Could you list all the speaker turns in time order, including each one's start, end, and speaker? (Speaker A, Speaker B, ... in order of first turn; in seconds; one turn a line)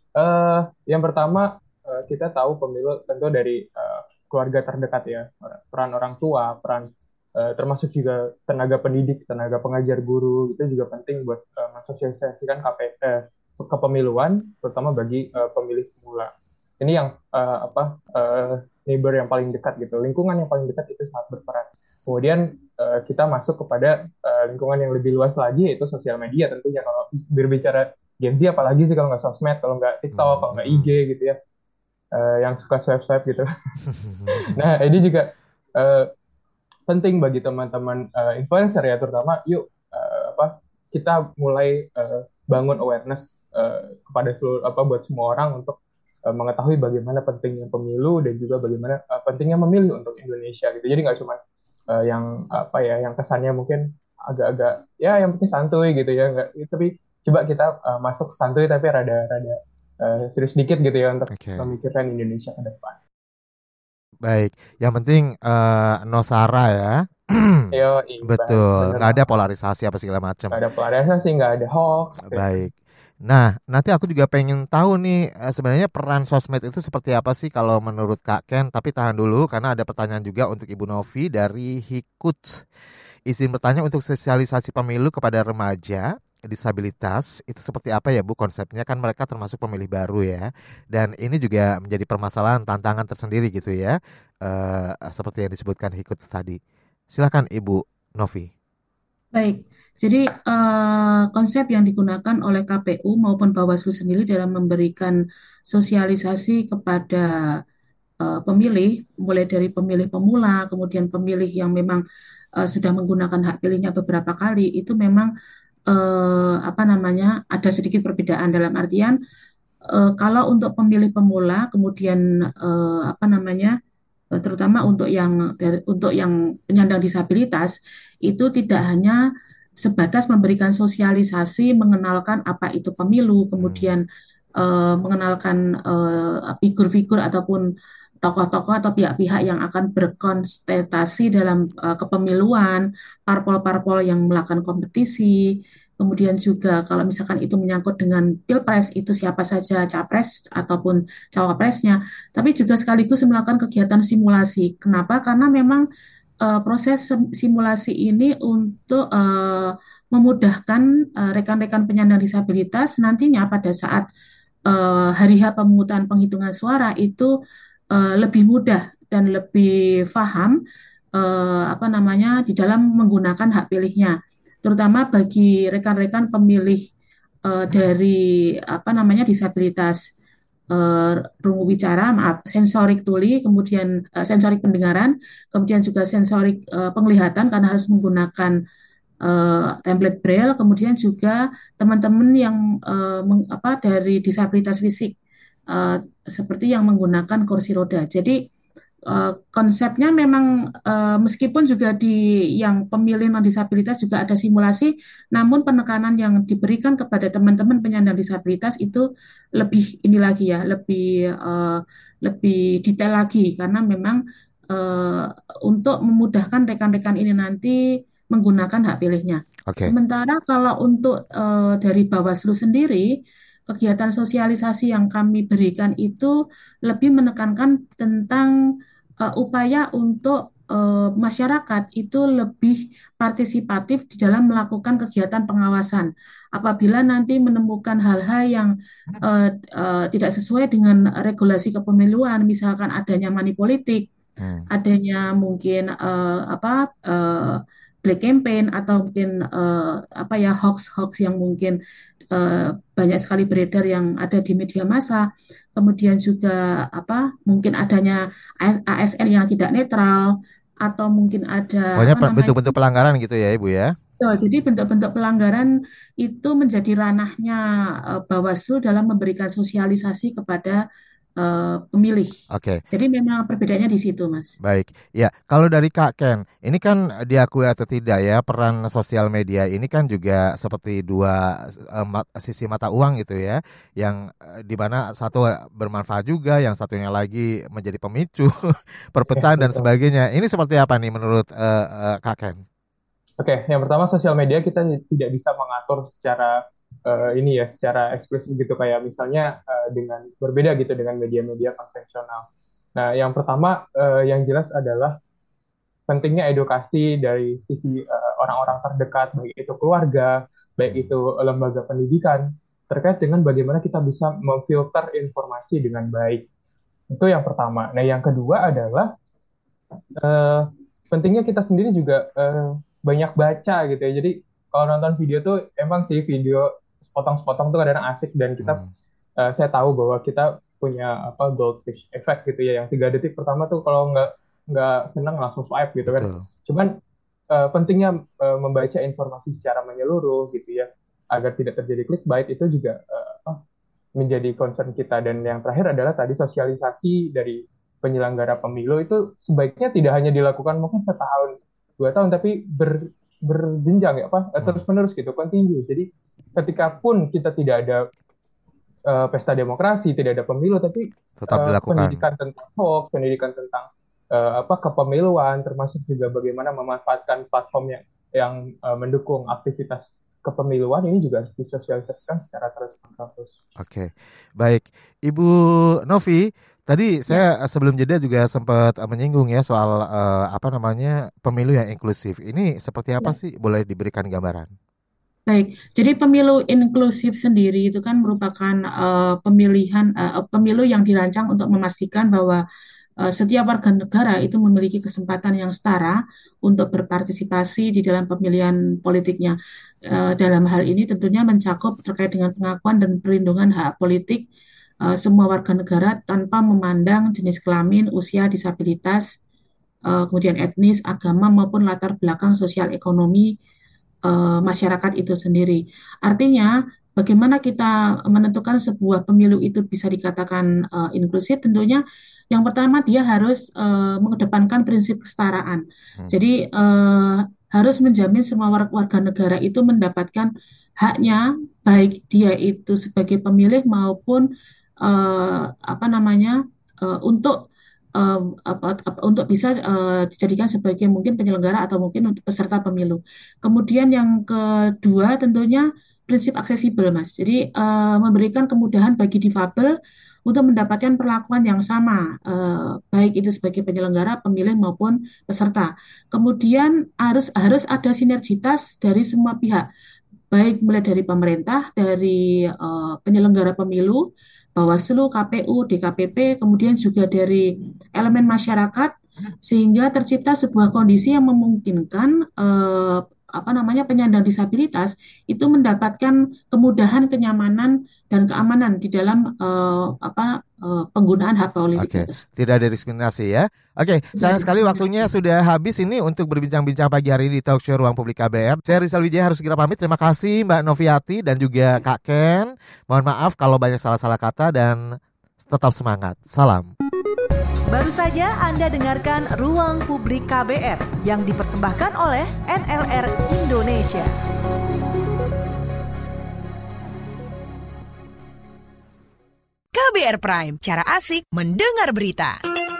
Speaker A: 0.2-31.4
Speaker B: 30.1-30.9
Speaker A: 32.1-33.5
Speaker B: 34.0-34.5
Speaker A: 34.3-36.1
Speaker A: 36.9-51.4
Speaker A: 51.9-63.0
Speaker B: 61.3-61.7
Speaker B: 64.2-67.7
Speaker A: 67.7-69.2
Speaker B: 68.2-70.6
Speaker A: 70.5-72.7
Speaker B: 72.2-72.7
Speaker B: 73.3-82.7
Speaker B: 83.3-96.6
Speaker B: 97.1-98.5
Speaker C: 99.3-105.2
Speaker C: 105.7-107.3
Speaker C: 108.2-112.0
Speaker C: 112.6-115.3
Speaker C: 115.9-119.2
Speaker C: 119.9-123.7
Speaker C: 124.4-127.8
Speaker C: 128.3-129.2
Speaker C: 129.8-134.0
Speaker B: 133.6-133.9
Speaker C: 134.6-137.6
Speaker C: 138.2-145.3
Speaker C: 146.0-155.9
Speaker C: 156.4-164.1
Speaker C: 164.7-167.3
Speaker C: 167.9-170.6
Speaker C: 171.2-176.8
Speaker C: 177.5-180.0
Speaker C: 180.7-188.6
Speaker C: 189.2-195.1
Speaker C: 195.7-198.4
Speaker C: 199.1-209.1
Speaker C: 209.6-214.2
Speaker C: 214.7-217.8
Speaker C: 218.3-223.1
Speaker B: 219.7-219.9
Speaker C: 223.7-226.3
Speaker C: 226.9-228.5
Speaker C: 229.2-238.7
Speaker C: 239.2-244.1
Speaker B: 244.4-244.7
Speaker C: 244.7-251.8
Speaker C: 252.3-255.2
Speaker C: 255.8-260.3
Speaker C: 260.9-262.7
Speaker B: 262.0-263.9
Speaker C: 264.2-270.8
Speaker C: 271.4-272.3
Speaker B: 272.5-272.8
Speaker C: 272.9-274.6
Speaker B: 274.6-288.5
Speaker B: 289.1-292.6
Speaker A: 289.4-289.9
Speaker A: 293.4-305.2
Speaker A: 306.1-316.5
Speaker B: 310.9-311.1
Speaker A: 317.1-319.1
Speaker A: 320.2-328.8
Speaker B: 328.6-328.9
Speaker A: 329.4-337.0
Speaker B: 336.0-336.5
Speaker A: 337.5-343.6
Speaker A: 344.2-358.0
Speaker A: 359.1-373.5
Speaker B: 361.4-362.2
Speaker B: 373.8-384.7
Speaker C: 385.5-392.6
Speaker C: 393.2-399.6
Speaker C: 400.1-404.5
Speaker C: 405.0-409.3
Speaker C: 410.1-413.5
Speaker C: 414.3-430.5
Speaker C: 431.0-434.5
Speaker C: 435.0-437.6
Speaker C: 438.2-449.9
Speaker C: 450.5-459.9
Speaker C: 460.5-464.2
Speaker C: 464.8-469.1
Speaker C: 469.7-482.4
Speaker B: 482.0-495.1
Speaker C: 484.4-485.0
Speaker B: 495.6-496.9
Speaker D: 497.9-504.4
Speaker E: 509.9-512.6